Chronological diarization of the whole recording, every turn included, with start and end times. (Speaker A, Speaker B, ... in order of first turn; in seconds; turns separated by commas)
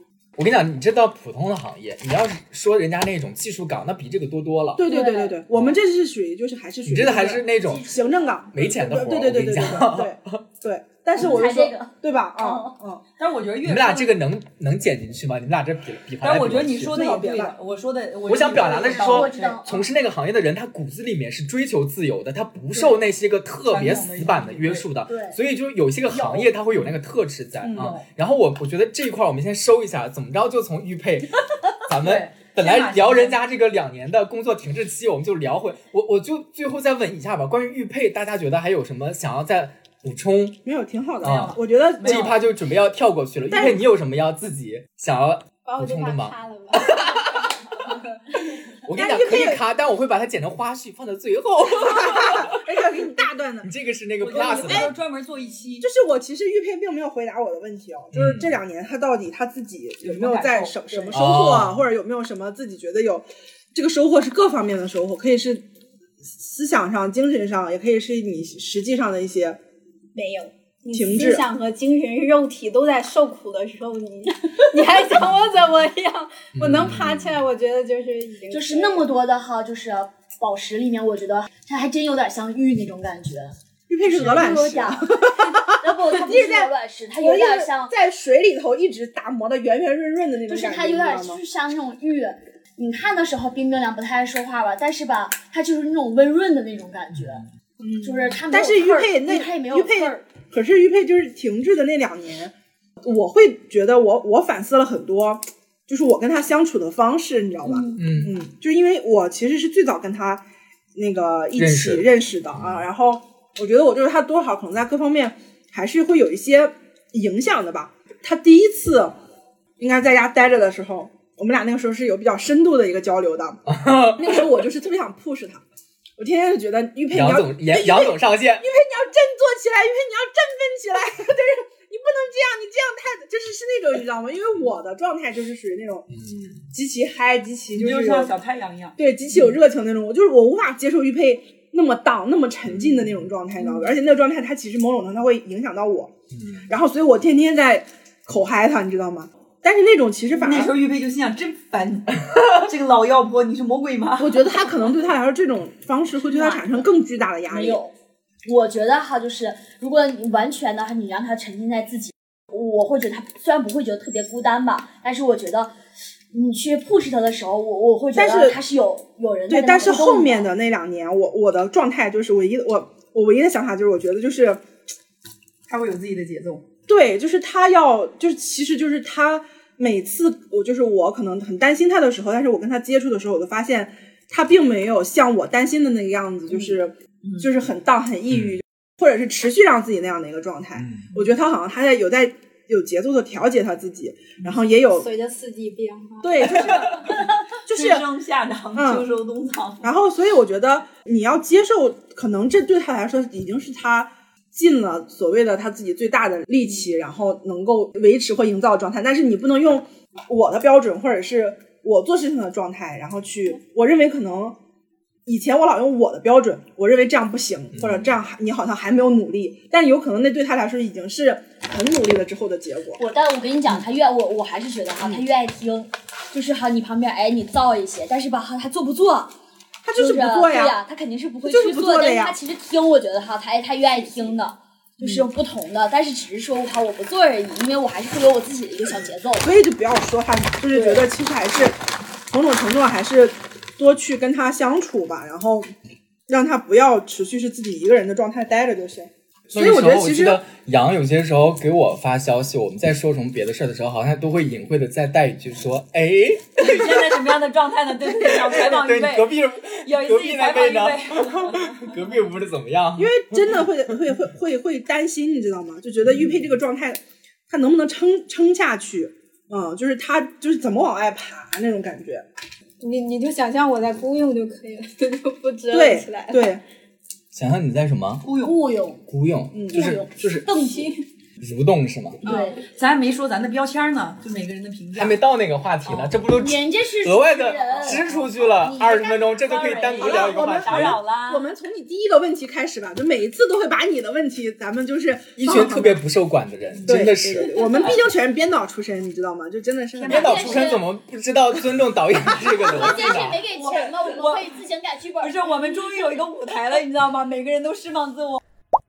Speaker A: 0.4-4.8, Speaker B: 4.8-13.0, Speaker C: 4.8-5.4, Speaker A: 5.5-5.8, Speaker A: 6.9-7.9, Speaker C: 7.6-8.5, Speaker A: 8.5-10.4, Speaker C: 11.2-12.8, Speaker D: 13.2-14.2, Speaker A: 13.6-17.0, Speaker D: 16.2-19.6, Speaker B: 16.9-17.6, Speaker A: 18.3-40.6, Speaker C: 18.9-19.9, Speaker D: 22.7-23.0, Speaker D: 23.7-24.9, Speaker C: 25.1-25.4, Speaker C: 26.1-26.5, Speaker B: 27.6-27.9, Speaker D: 27.6-28.1, Speaker D: 32.0-33.4, Speaker B: 40.6-42.4, Speaker D: 41.2-42.4, Speaker A: 41.2-47.2, Speaker B: 43.5-43.8, Speaker E: 45.6-47.2, Speaker A: 48.8-52.6, Speaker B: 48.9-49.6, Speaker B: 51.7-53.7, Speaker A: 53.6-54.9, Speaker D: 54.2-55.9, Speaker B: 54.4-54.9, Speaker B: 55.8-65.7, Speaker A: 58.1-58.5, Speaker D: 60.0-61.4, Speaker A: 61.1-61.8, Speaker B: 66.3-69.6, Speaker E: 70.1-79.1, Speaker B: 70.9-71.5, Speaker A: 76.5-77.3, Speaker C: 78.5-87.9, Speaker B: 83.9-91.4, Speaker A: 84.1-84.8, Speaker C: 90.5-97.5, Speaker B: 97.8-110.4, Speaker C: 98.0-100.2, Speaker C: 107.6-108.0, Speaker A: 108.0-108.3, Speaker B: 111.0-119.2, Speaker A: 111.6-112.8, Speaker B: 119.8-125.6, Speaker A: 123.7-124.3, Speaker B: 126.2-136.1, Speaker A: 127.1-128.7, Speaker A: 136.1-136.6, Speaker B: 136.7-138.3, Speaker D: 137.8-139.0, Speaker B: 139.0-146.1, Speaker A: 142.7-143.2, Speaker A: 146.3-146.7, Speaker B: 146.7-150.7, Speaker D: 150.4-154.5, Speaker B: 154.2-157.8, Speaker C: 156.2-156.8, Speaker C: 157.5-157.9, Speaker C: 158.4-165.7, Speaker C: 166.3-170.5, Speaker B: 168.2-168.6, Speaker B: 169.5-174.6, Speaker D: 175.7-176.7, Speaker B: 176.9-195.1, Speaker D: 187.2-187.5, Speaker A: 188.3-188.6, Speaker A: 190.8-191.1, Speaker E: 195.0-196.7, Speaker B: 196.2-198.1, Speaker D: 196.5-199.9, Speaker B: 198.8-199.1, Speaker B: 199.8-214.6, Speaker B: 215.3-223.2, Speaker A: 217.8-218.2, Speaker C: 223.0-229.3, Speaker B: 229.8-230.8, Speaker C: 229.9-239.5, Speaker B: 231.4-232.4, Speaker B: 234.0-234.3, Speaker B: 235.0-235.3, Speaker B: 238.8-241.8, Speaker C: 240.7-241.0, Speaker B: 242.3-245.7, Speaker B: 246.3-250.4, Speaker A: 249.5-257.2, Speaker D: 256.6-259.3, Speaker A: 258.1-263.7, Speaker D: 259.8-261.9, Speaker B: 263.0-272.2, Speaker E: 272.8-276.5, Speaker B: 275.7-276.6, Speaker A: 277.3-278.2, Speaker D: 278.2-278.6, Speaker C: 278.4-279.0, Speaker A: 279.1-280.6, Speaker B: 279.5-280.0, Speaker C: 279.7-280.9, Speaker E: 280.4-280.9, Speaker A: 281.4-282.2, Speaker C: 282.2-282.6, Speaker D: 282.2-285.2, Speaker A: 285.0-291.0, Speaker C: 286.3-290.1, Speaker D: 289.5-291.5, Speaker B: 290.0-296.0, Speaker A: 295.4-297.6, Speaker D: 296.8-297.1, Speaker B: 296.9-300.6, Speaker C: 297.3-298.0, Speaker D: 297.6-298.0, Speaker D: 299.9-300.8, Speaker C: 300.1-300.9, Speaker A: 300.1-303.4, Speaker C: 302.6-306.2, Speaker D: 302.7-304.5, Speaker D: 305.2-308.4